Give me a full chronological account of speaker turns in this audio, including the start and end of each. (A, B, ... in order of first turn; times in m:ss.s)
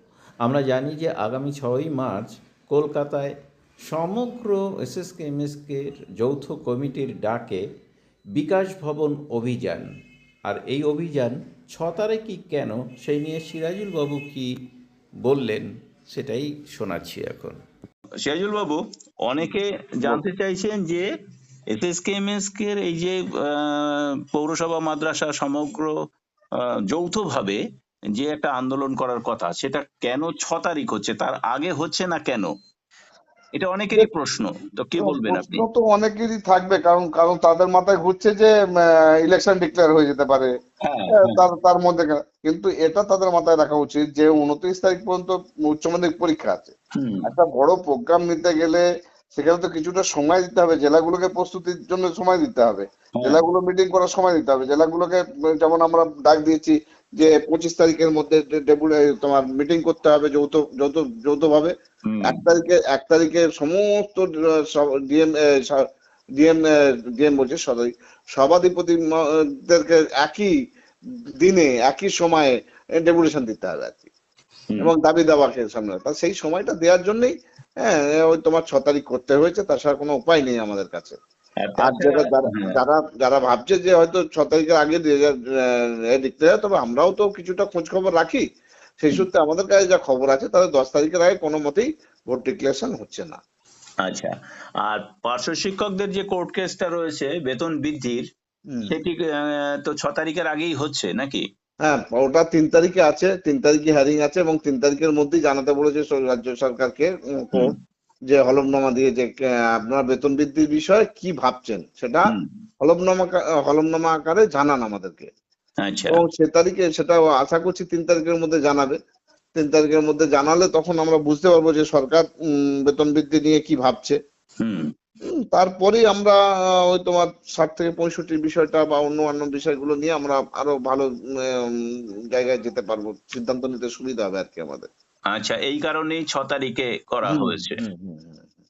0:00.4-0:03.3 A
0:03.8-0:07.6 A
0:08.4-0:09.9 A
0:10.4-0:14.5 A
0:15.2-0:17.6 A
0:18.2-0:21.0 B
0:21.7-0:25.9 B
0:26.9-0:27.6 B
0:28.2-0:32.5 B
0:33.5-0:35.6 B
0:35.0-0:40.5 C
0:40.8-0:41.4 B
0:41.1-0:46.7 C
0:47.0-0:47.3 B
0:47.2-1:01.7 C
0:53.2-0:53.4 B
1:02.1-1:02.4 B
1:02.2-1:05.8 C
1:07.2-1:09.1 C
1:09.6-1:10.5 C
1:11.4-1:14.1 C
1:14.8-1:17.3 C
1:17.8-1:21.2 C
1:21.6-1:22.8 B
1:21.8-1:28.4 C
1:29.0-1:33.4 C
1:34.0-1:34.3 B
1:34.8-1:38.2 B
1:38.7-1:39.0 C
1:38.9-1:41.4 B
1:41.8-1:47.7 C
1:48.3-1:49.3 C
1:49.8-1:55.3 C
1:55.8-1:56.2 B
1:56.1-1:59.0 C
1:59.5-2:02.2 C
2:02.9-2:04.2 C
2:04.6-2:04.9 B
2:05.5-2:06.4 C
2:06.9-2:11.7 C
2:12.3-2:14.9 C
2:15.3-2:17.8 B
2:17.3-2:18.4 C